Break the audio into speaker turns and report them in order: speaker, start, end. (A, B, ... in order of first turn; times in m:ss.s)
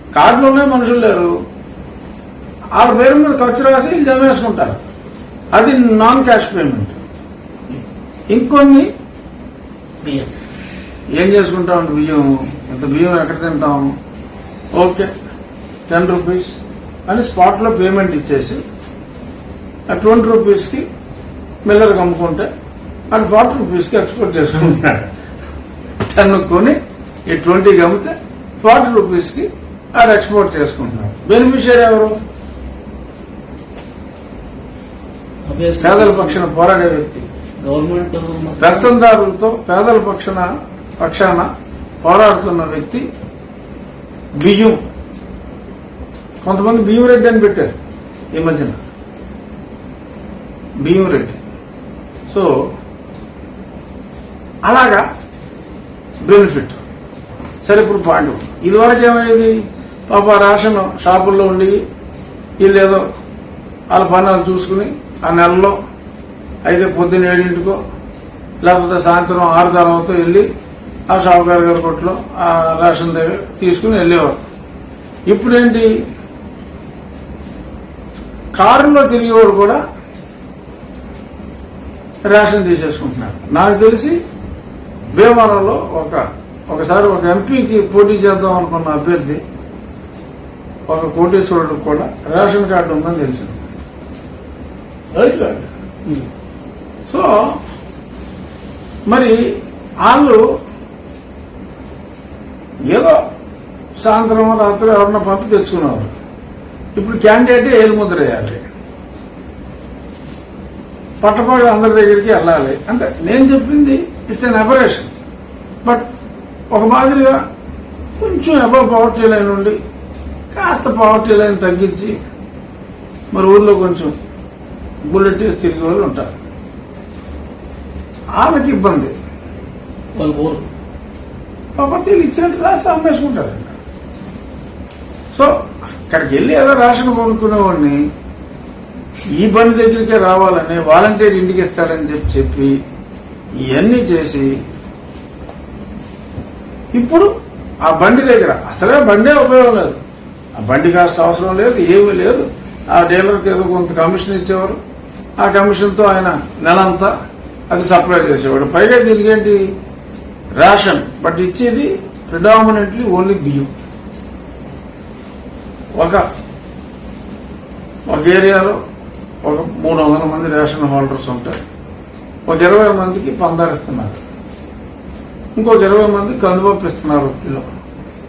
0:00.2-0:01.3 A
0:02.8-0:04.8 A
0:05.6-0:07.0 A
0:08.3-0:08.9 A
0:10.0-0:10.3 B
0:11.2-0:14.0 A
0:14.8-0:15.1 A
0:15.9-0:16.6 A
0:17.1-0:18.6 A
0:19.9-0:20.8 A
0:21.6-0:22.5 A
0:23.1-0:25.1 A
0:26.0-0:26.8 A
0:27.3-0:32.2 A
0:35.5-0:36.4 B
0:35.8-0:37.3 A
0:37.6-0:38.9 B
0:38.6-0:41.5 A
0:42.0-0:43.0 A
0:44.4-0:44.8 A
0:46.4-0:47.8 A
0:48.3-0:48.8 A
0:50.8-0:51.4 A
0:54.6-0:55.0 A
0:56.2-0:56.8 A
0:57.6-0:59.5 A
1:00.1-1:01.8 A
1:02.6-1:03.0 A
1:03.9-1:05.8 A
1:06.6-1:07.8 A
1:08.6-1:10.5 A
1:11.1-1:14.4 A
1:15.3-1:15.9 A
1:18.6-1:19.8 A
1:22.3-1:24.2 A
1:25.2-1:29.4 A
1:30.9-1:33.6 A
1:35.1-1:35.7 A
1:37.1-1:37.6 A
1:39.1-1:39.4 A
1:40.0-1:40.4 A
1:42.9-1:43.2 A
1:44.0-1:46.1 A
1:47.0-1:48.6 A
1:51.2-1:55.1 A
1:56.7-1:57.4 A
1:58.2-1:59.8 A
2:00.5-2:02.2 A
2:03.3-2:04.2 A
2:05.1-2:06.3 A
2:08.4-2:09.1 A
2:10.2-2:10.6 B
2:11.8-2:13.8 A
2:16.1-2:18.0 A
2:19.4-2:22.8 A
2:23.7-2:24.5 A
2:27.0-2:27.3 A
2:27.8-2:30.0 A
2:30.6-2:34.8 A
2:35.4-2:37.1 A
2:37.7-2:39.6 A
2:40.6-2:43.7 A
2:46.0-2:46.2 A
2:48.1-2:48.8 A
2:49.4-2:51.6 A
2:52.5-2:54.2 A
2:55.6-2:57.7 A